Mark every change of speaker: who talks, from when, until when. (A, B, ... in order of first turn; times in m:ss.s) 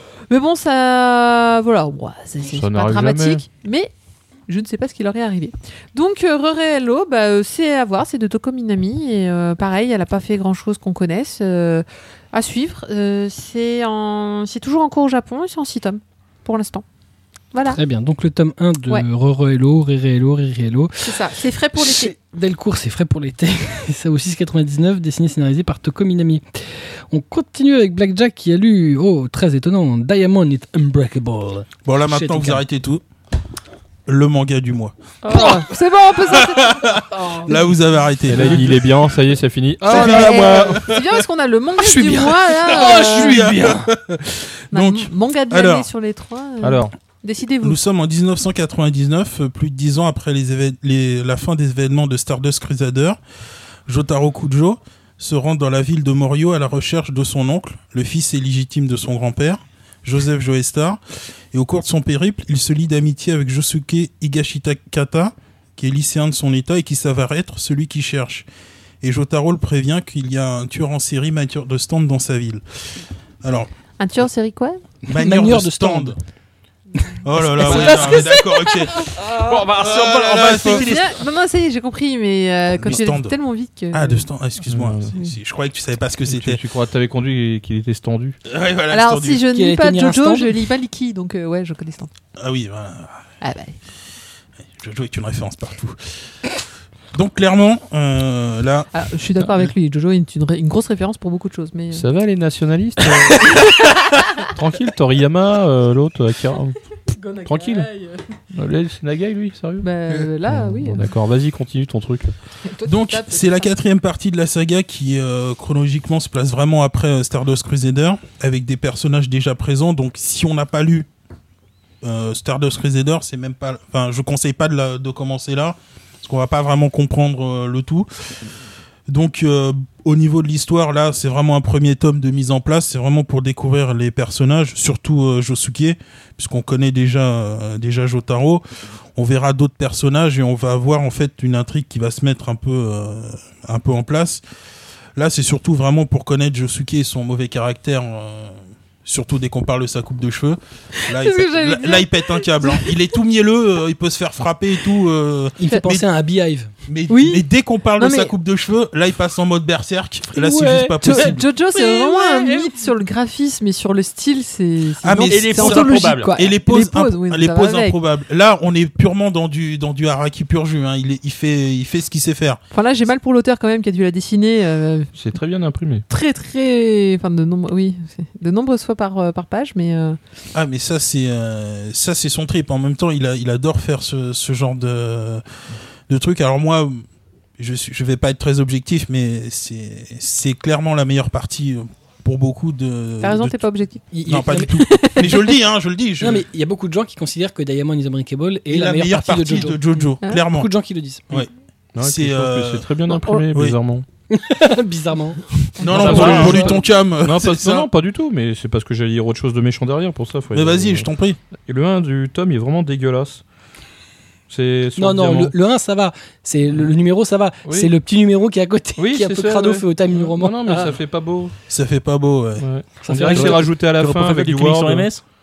0:00.3-0:03.9 A
0:02.5-0:03.5 B
0:04.5-0:16.8 A
0:17.5-0:17.8 A
0:17.7-0:21.2 C
0:21.0-0:22.1 A
0:21.8-0:26.6 C
0:27.1-0:32.6 C
0:31.8-0:33.0 D
0:34.1-0:35.6 D
0:35.2-0:37.6 A
0:36.2-0:38.9 D
0:38.3-0:40.9 B
0:39.9-0:41.0 D
0:39.9-0:40.4 C
0:39.9-0:43.5 A
0:41.8-0:43.9 C
0:42.7-0:45.9 D
0:44.7-0:47.8 A
0:46.6-0:46.9 B
0:47.6-0:53.2 D
0:53.9-1:01.0 D
1:01.5-1:08.5 D
1:09.0-1:12.6 D
1:13.4-1:13.7 D
1:14.0-1:14.8 A
1:15.1-1:16.2 C
1:15.1-1:16.2 D
1:17.2-1:19.2 D
1:17.6-1:18.8 A
1:17.6-1:18.2 C
1:17.7-1:18.0 E
1:19.2-1:21.2 E
1:19.7-1:21.0 D
1:20.6-1:24.3 A
1:22.8-1:23.4 D
1:23.9-1:26.6 D
1:24.7-1:25.1 B
1:26.3-1:28.4 B
1:28.5-1:29.5 D
1:28.9-1:32.1 A
1:29.5-1:30.5 C
1:32.4-1:33.2 D
1:33.4-1:33.8 A
1:34.8-1:36.1 D
1:37.1-1:38.9 D
1:38.9-1:42.1 A
1:41.9-1:43.8 B
1:44.4-1:46.8 B
1:47.1-1:48.2 A
1:47.5-1:47.9 B
1:48.5-1:49.9 B
1:49.8-1:51.1 A
1:50.5-1:52.3 B
1:52.7-1:53.7 A
1:52.8-2:01.1 D
2:02.0-2:08.1 D
2:09.1-2:18.6 D
2:19.2-2:24.4 D
2:25.2-2:36.1 D
2:31.0-2:32.9 A
2:35.6-2:36.7 C
2:36.9-2:41.4 D
2:37.1-2:37.4 A
2:38.0-2:38.3 A
2:40.3-2:42.7 C
2:41.0-2:48.0 A
2:45.0-2:52.6 D
2:45.3-2:46.3 E
2:52.7-2:55.1 A
2:55.1-2:56.0 B
2:56.1-3:00.2 A
3:00.5-3:05.4 D
3:06.1-3:07.0 D
3:07.6-3:13.6 D
3:13.2-3:14.0 A
3:14.1-3:14.8 C
3:14.2-3:16.4 D
3:14.7-3:15.5 A
3:16.2-3:21.5 C
3:18.7-3:20.7 D
3:22.0-3:24.0 B
3:22.0-3:22.9 D
3:23.1-3:23.4 A
3:24.3-3:26.8 C
3:25.8-3:26.3 A
3:25.8-3:27.9 D
3:25.9-3:26.7 B
3:27.2-3:31.1 B
3:30.5-3:31.4 D
3:31.6-3:33.4 B
3:34.5-3:35.5 B
3:35.0-3:41.0 C
3:37.6-3:37.9 B
3:39.0-3:41.5 B
3:41.7-3:42.7 D
3:42.6-3:45.1 B
3:43.0-3:43.8 C
3:43.3-3:45.2 E